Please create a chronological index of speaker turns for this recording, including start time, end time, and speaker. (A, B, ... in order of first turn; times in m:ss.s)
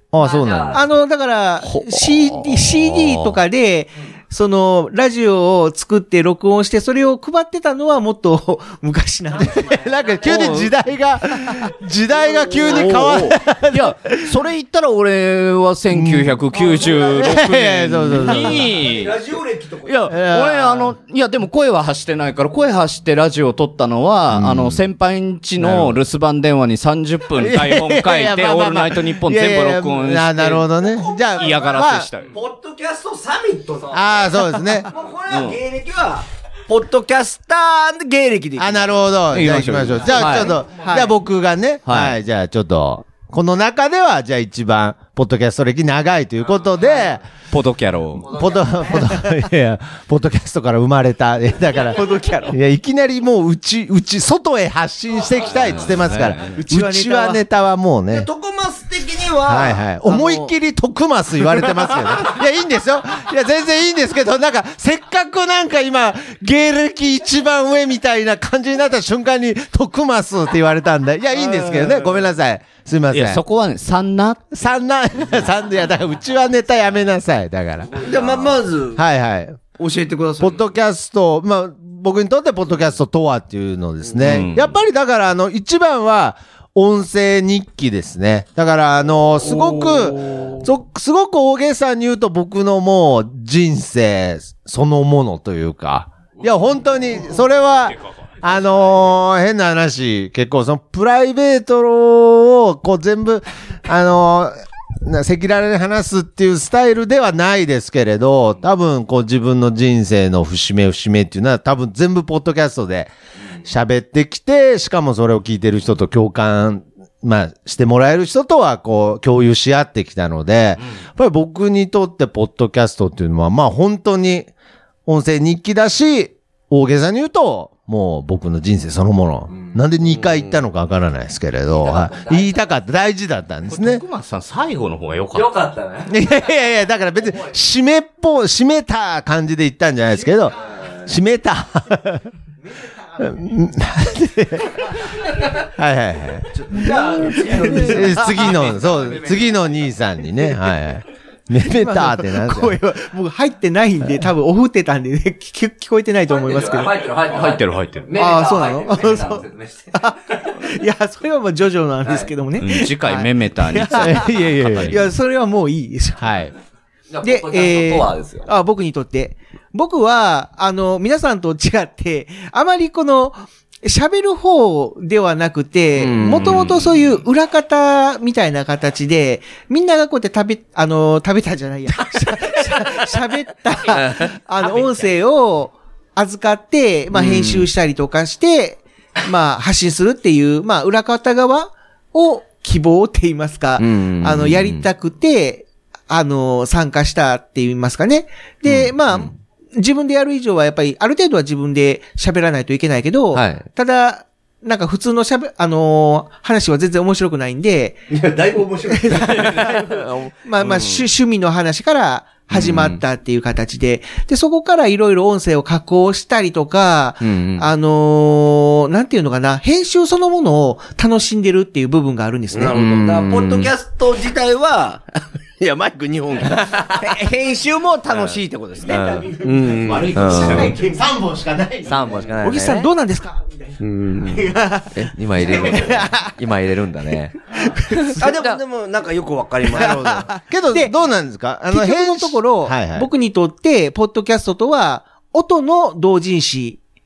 0:00.1-0:00.8 A
0:00.2-0:00.8 B
0:00.7-0:09.9 C
0:01.6-0:03.4 D
0:09.4-0:14.4 A
0:09.9-0:10.2 B
0:10.2-0:10.7 D
0:12.6-0:19.2 D
0:15.9-0:16.4 A
0:16.5-0:17.3 E
0:17.0-0:18.7 A
0:18.2-0:20.0 E
0:19.8-0:30.7 D
0:20.1-0:20.9 A
0:24.3-0:24.8 A
0:25.6-0:26.0 A
0:27.4-0:32.1 A
0:30.9-0:31.8 E
0:31.4-0:32.3 D
0:32.3-0:39.2 E
0:33.9-0:34.9 A
0:35.3-0:35.6 D
0:38.6-0:47.2 A
0:39.3-0:40.5 D
0:40.2-0:41.2 C
0:41.9-0:42.2 D
0:47.5-0:48.4 D
0:48.2-0:58.3 A
0:48.4-0:48.8 B
0:48.9-0:49.2 C
0:51.9-0:52.6 C
0:55.7-0:56.6 D
0:56.5-0:57.4 C
0:58.1-0:59.8 E
0:59.4-1:13.4 A
1:00.1-1:00.5 C
1:13.1-1:14.5 D
1:14.5-1:19.6 A
1:18.0-1:19.0 E
1:19.8-1:20.6 E
1:20.4-1:53.1 A
1:24.1-1:24.5 E
1:24.2-1:24.8 D
1:30.3-1:30.6 E
1:53.6-2:04.5 A
2:05.1-2:14.0 A
2:11.7-2:12.6 B
2:13.7-2:15.5 D
2:15.3-2:16.1 B
2:16.1-2:22.3 A
2:20.7-2:21.0 B
2:23.2-2:26.7 A
2:26.6-2:28.8 E
2:26.8-2:28.3 C
2:26.8-2:27.4 B
2:27.5-2:32.8 A
2:28.3-2:29.5 B
2:31.6-2:37.1 C
2:36.3-2:40.6 B
2:37.3-2:38.1 D
2:38.1-2:46.4 C
2:42.0-2:42.3 B
2:42.6-2:45.0 D
2:44.0-2:45.0 A
2:46.2-2:46.5 A
2:47.1-2:48.5 B
2:47.2-3:28.0 C
2:56.0-2:57.1 B
3:03.9-3:05.0 B
3:07.1-3:07.7 B
3:13.8-3:14.9 B
3:18.6-3:19.3 B
3:23.3-3:23.6 B
3:28.1-3:29.7 E
3:28.9-3:42.8 C
3:29.3-3:31.0 B
3:32.5-3:33.0 B
3:37.2-3:37.6 B
3:42.5-3:45.0 E
3:42.7-3:43.7 B
3:45.6-3:50.8 E
3:46.6-3:47.0 B
3:48.1-3:49.3 B
3:49.8-3:52.2 A
3:49.9-3:50.7 D
3:50.1-3:50.7 B
3:50.5-3:50.9 C
3:51.8-3:52.9 B
3:52.4-3:56.3 C
3:53.8-3:54.5 E
3:55.0-3:57.4 B
3:57.5-3:58.2 C
3:58.0-3:58.6 B
3:58.2-4:00.3 E
3:59.7-4:00.9 C
4:00.4-4:03.1 A
4:01.7-4:06.8 C